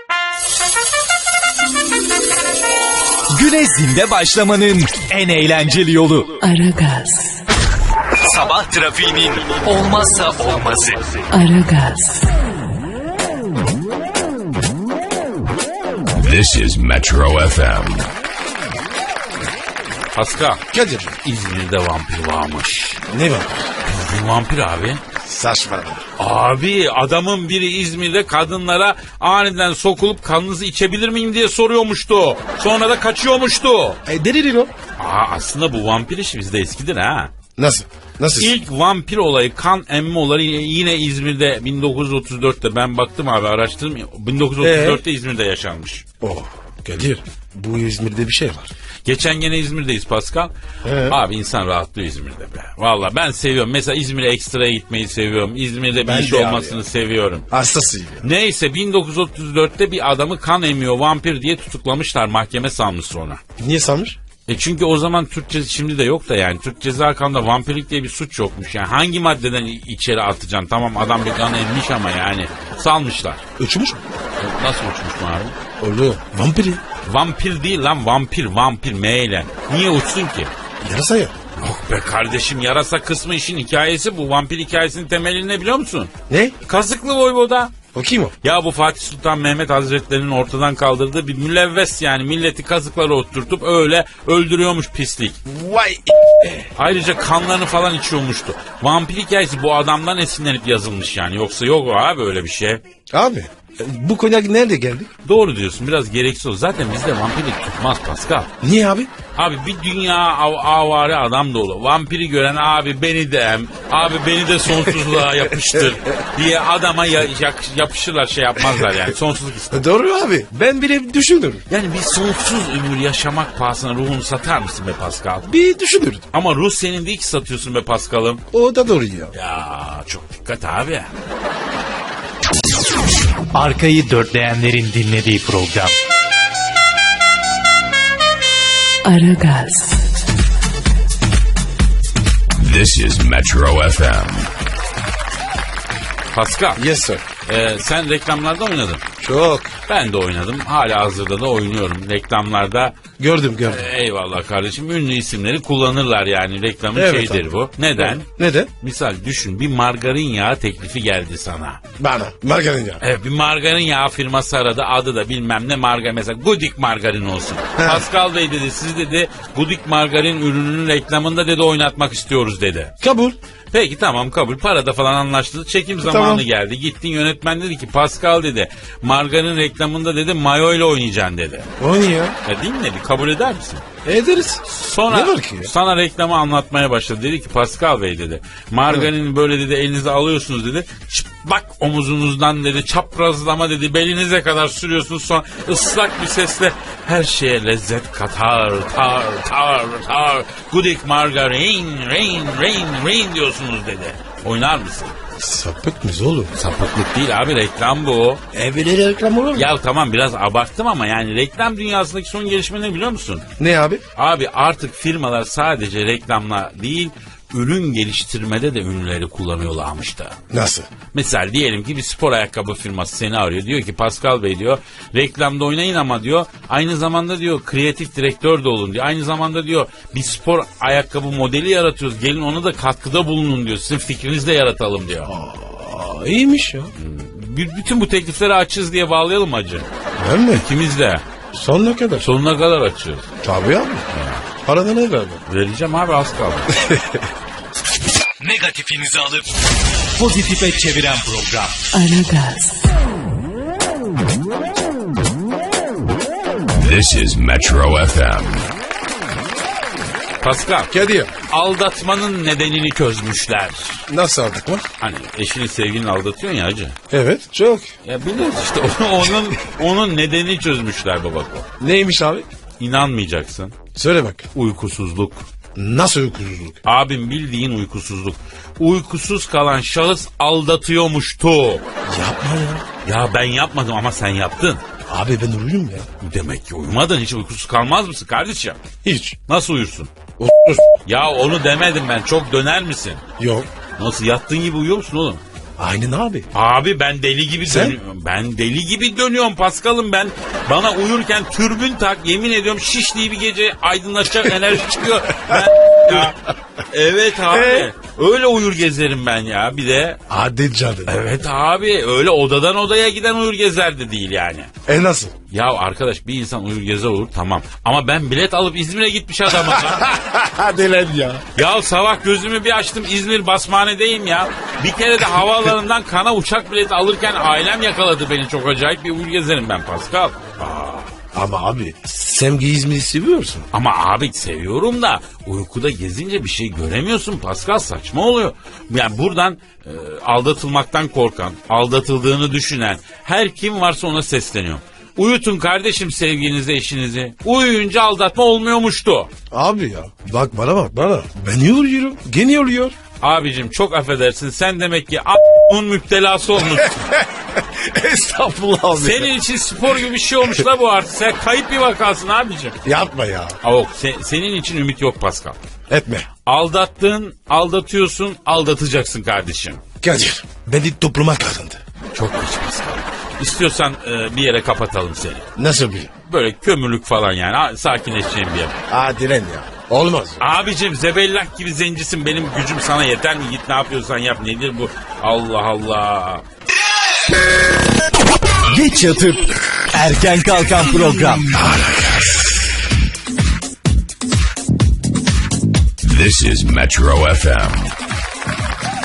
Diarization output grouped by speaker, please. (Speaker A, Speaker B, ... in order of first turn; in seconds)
Speaker A: 3.3-6.4, 8.2-11.2, 133.5-135.9, 248.4-249.5, 250.2-251.8, 388.7-391.5
Speaker B: 6.4-7.4, 11.3-12.3, 139.0-140.0, 251.9-252.9
Speaker C: 16.1-18.1, 142.6-144.5, 256.8-258.7, 396.0-397.9
Speaker D: 20.1-20.6, 21.2-23.0, 23.8-25.0, 26.2-34.0, 35.0-37.3, 38.3-46.0, 49.0-50.5, 51.0-57.5, 58.2-63.4, 64.5-73.5, 74.4-75.5, 77.0-80.5, 81.6-86.1, 86.6-87.7, 88.4-95.4, 96.8-102.8, 105.2-108.5, 109.3-119.8, 121.7-125.5, 126.3-128.4, 129.3-131.1, 146.3-146.8, 147.5-149.0, 149.9-152.9, 153.7-158.2, 158.8-161.8, 163.0-172.9, 173.7-181.7, 182.4-183.8, 184.6-205.2, 206.5-208.4, 209.5-213.4, 214.2-220.4, 221.1-235.3, 236.9-239.9, 240.5-241.2, 242.2-243.3, 244.1-244.4, 245.5-246.7, 260.4-260.9, 261.5-264.1, 265.0-266.9, 268.0-271.7, 272.8-273.8, 274.5-275.4, 276.8-281.8, 283.0-284.8, 286.2-288.8, 289.5-290.1, 291.1-293.2, 294.0-295.4, 296.5-306.4, 306.9-310.2, 311.1-314.7, 315.5-320.1, 321.6-331.1, 333.7-349.3, 353.2-357.0, 358.9-362.8, 363.6-365.6, 366.4-369.8, 372.1-375.5, 376.2-378.7, 380.4-386.4
Speaker E: 20.7-21.2, 23.1-23.7, 25.2-26.1, 34.0-34.7, 37.6-38.5, 44.6-45.0, 46.2-48.7, 50.8-51.2, 56.0-56.8, 57.5-58.2, 63.6-64.2, 73.6-74.0, 75.8-76.8, 80.8-81.3, 86.3-86.5, 87.9-88.3, 95.5-96.7, 103.1-105.1, 108.6-109.1, 114.8-116.0, 119.7-121.6, 125.4-126.3, 128.5-129.3, 146.8-147.2, 149.2-149.7, 153.2-153.9, 156.9-158.7, 162.0-163.0, 167.8-168.0, 173.0-173.4, 176.0-176.4, 181.8-182.3, 184.0-185.7, 205.4-206.5, 208.5-209.7, 213.6-214.0, 220.5-220.9, 235.2-236.9, 240.2-240.7, 241.5-242.3, 243.4-244.1, 244.6-245.4, 246.8-247.3, 260.9-261.3, 264.1-264.9, 267.1-267.9, 271.8-272.4, 273.9-274.5, 275.7-276.8, 282.1-282.9, 285.1-286.1, 289.0-289.4, 290.4-290.9, 293.4-293.7, 295.8-296.5, 297.6-298.0, 305.5-306.3, 307.5-307.9, 310.3-311.2, 314.9-315.3, 319.5-321.4, 331.1-333.7, 349.5-352.9, 356.7-359.3, 362.8-363.6, 365.9-366.3, 370.0-371.8, 375.6-376.1, 378.9-380.4, 391.5-392.7